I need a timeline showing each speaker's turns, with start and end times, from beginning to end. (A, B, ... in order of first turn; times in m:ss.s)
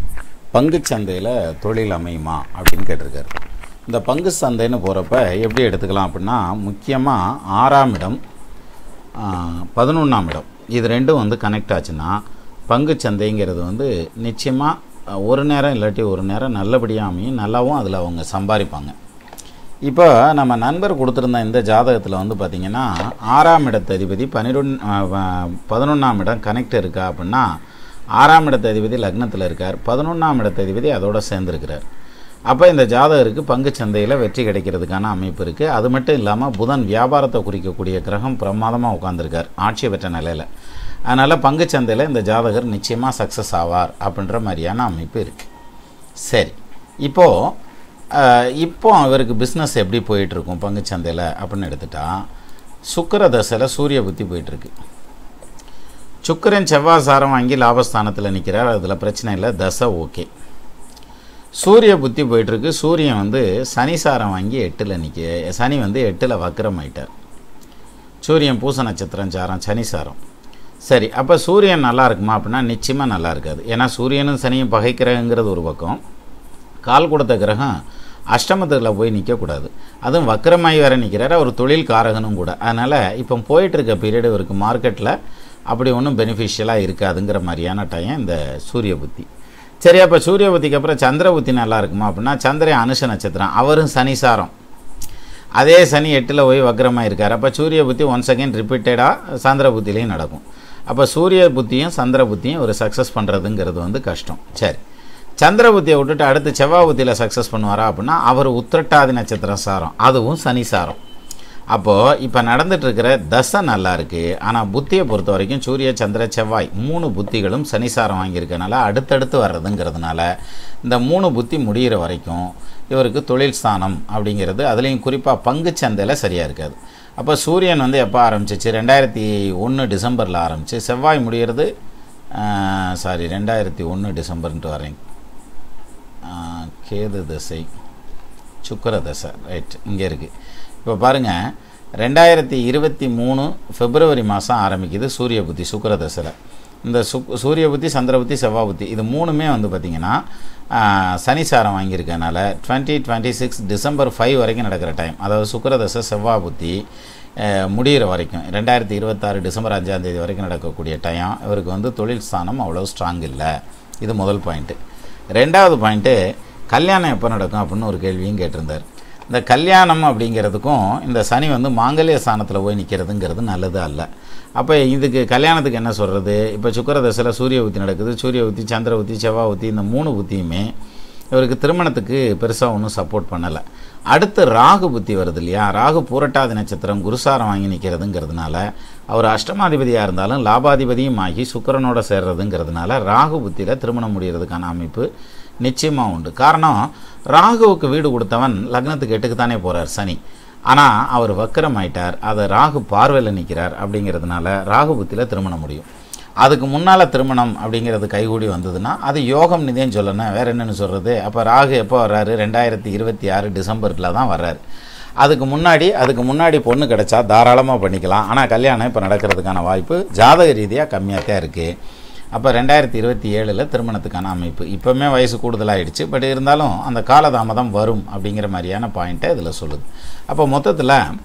0:00.5-0:03.3 A
0:03.9-0:08.2 A
0:09.2-0:18.9 A
0:19.9-0:27.5 A
0:28.2-0:31.8 A
0:32.5-0:40.5 A
0:41.1-0:45.5 A
0:46.2-0:47.5 A
0:48.1-0:52.2 A
0:52.9-0:54.7 A
0:56.2-1:00.3 A
1:01.6-1:07.1 A
1:08.2-1:10.2 A
1:10.8-1:16.0 A
1:16.8-1:17.7 A
1:18.3-1:25.1 A
1:25.7-1:29.3 A
1:29.8-1:34.5 A
1:35.6-1:44.8 A
1:45.4-1:51.0 A
1:51.7-2:00.3 A
2:00.8-2:11.7 A
2:12.4-2:15.0 A
2:16.2-2:17.7 A
2:18.6-2:20.3 A
2:20.8-2:30.2 A
2:30.7-2:36.8 A
2:37.4-2:44.8 A
2:45.4-2:46.2 A
2:46.7-3:00.7 A
3:01.3-3:15.1 A
3:15.6-3:25.9 A
3:26.4-3:34.6 A
3:35.2-3:41.7 A
3:42.3-3:51.0 A